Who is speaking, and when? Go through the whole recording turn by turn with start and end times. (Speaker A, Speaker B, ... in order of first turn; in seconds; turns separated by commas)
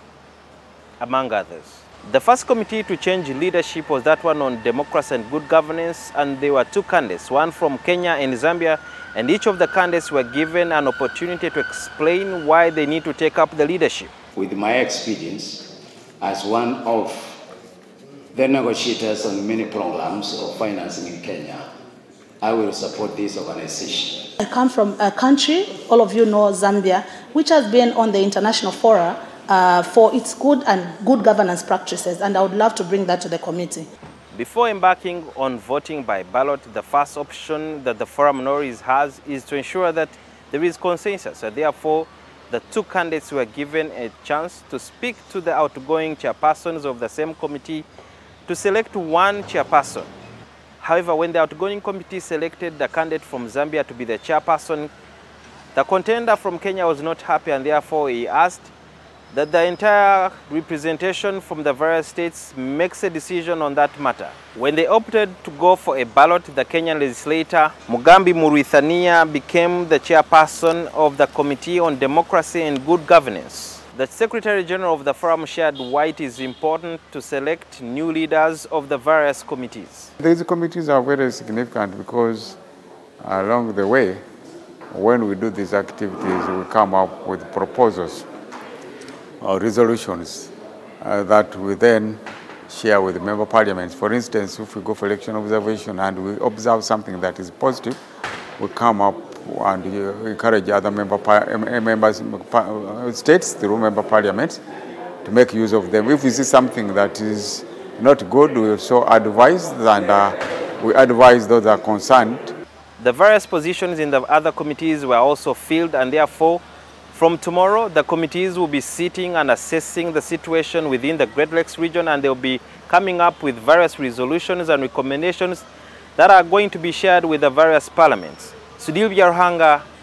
Speaker A: 1.0-14.1, Speaker B: 14.4-17.4, Speaker B: 18.3-21.6, Speaker B: 22.4-24.3, Speaker C: 24.4-33.9, Speaker A: 34.3-47.9, Speaker A: 48.5-50.1, Speaker A: 50.8-54.9, Speaker A: 55.8-58.7, Speaker A: 59.3-80.1, Speaker D: 80.2-82.6, Speaker D: 83.2-84.2, Speaker D: 84.9-88.3, Speaker D: 89.4-98.0, Speaker D: 98.6-104.6, Speaker D: 105.2-112.5, Speaker A: 113.0-125.7, Speaker A: 126.2-129.8